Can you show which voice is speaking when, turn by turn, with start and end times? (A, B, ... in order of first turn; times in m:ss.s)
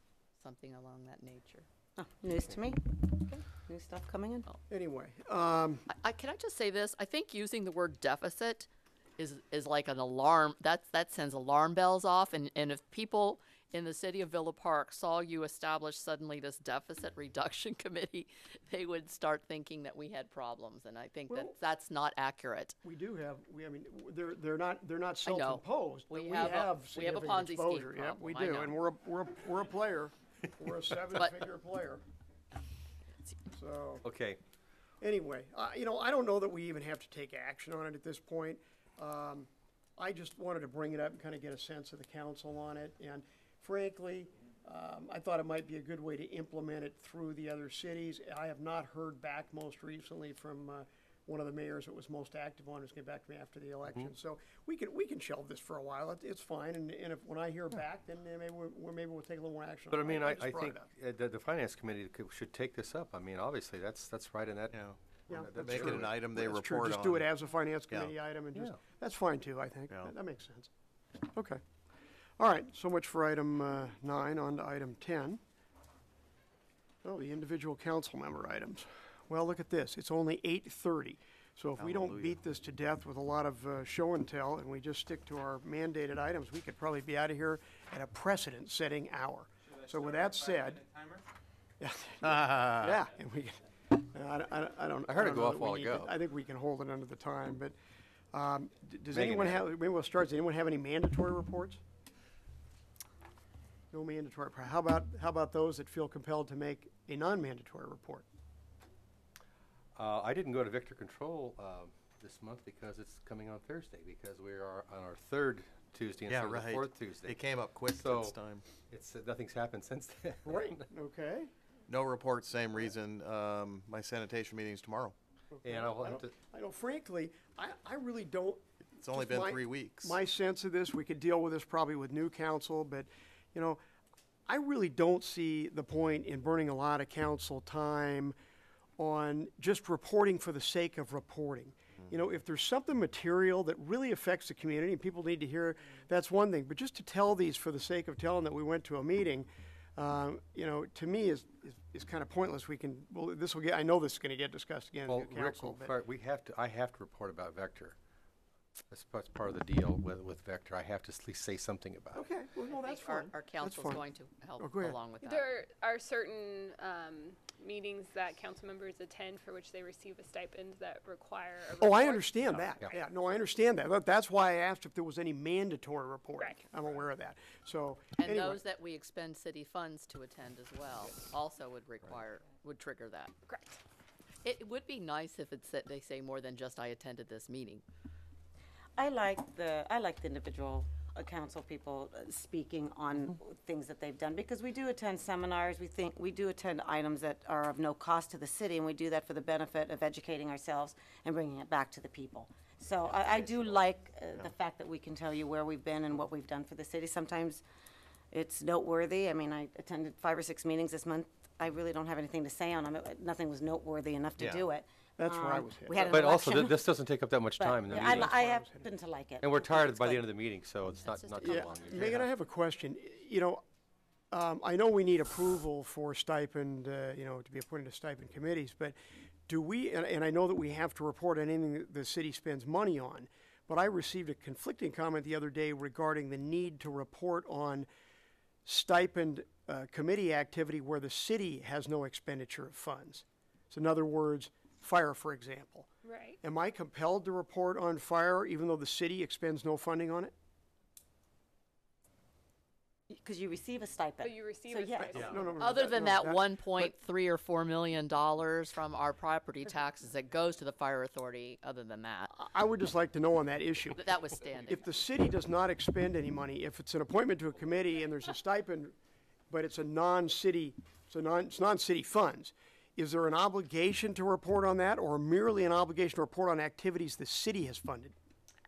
0:00.4-0:01.6 A
0:02.0-0:04.4 B
0:04.7-0:05.9 C
0:05.9-0:22.8 A
0:21.3-0:21.5 C
0:22.8-0:32.0 C
0:25.2-0:28.7 A
0:33.5-0:34.0 C
0:34.0-0:34.4 D
0:35.0-1:00.9 C
0:59.9-1:06.1 D
1:04.7-1:05.0 E
1:05.3-1:10.7 C
1:05.5-1:07.3 E
1:07.9-1:08.1 E
1:11.3-1:11.6 C
1:12.4-1:15.4 C
1:17.0-1:31.1 C
1:21.8-1:22.4 E
1:31.8-1:37.7 C
1:32.2-1:32.9 E
1:35.1-1:36.1 D
1:38.3-1:41.8 C
1:39.1-1:39.6 D
1:43.9-1:48.2 C
1:49.9-2:00.8 D
1:56.3-1:58.6 E
2:00.4-2:01.5 C
2:01.9-2:05.2 E
2:05.5-2:13.8 C
2:05.6-2:06.3 D
2:09.0-2:10.2 E
2:14.5-2:18.4 C
2:19.0-2:35.9 C
2:35.1-2:38.0 D
2:38.9-2:42.2 D
2:42.1-2:44.0 C
2:42.7-2:45.5 A
2:44.6-2:45.0 C
2:45.2-2:53.0 F
2:51.8-2:58.6 C
2:58.2-3:03.3 A
3:03.5-3:03.8 F
3:04.4-3:07.8 A
3:09.0-3:27.6 B
3:23.0-3:23.8 E
3:28.3-3:36.8 B
3:34.4-3:34.7 E
3:35.2-3:36.3 C
3:36.1-3:38.4 D
3:37.6-3:40.2 B
3:37.9-3:38.9 C
3:39.4-3:42.3 D
3:41.0-3:42.2 A
3:41.4-3:43.6 C
3:44.3-3:49.0 C
3:49.5-3:57.9 C
3:58.6-4:10.3 C
4:06.0-4:06.4 F
4:13.1-4:15.3 B
4:14.2-4:15.5 F
4:15.2-4:16.9 C
4:15.5-4:22.3 A
4:22.3-4:28.9 C
4:24.0-4:24.8 A
4:29.5-4:38.1 C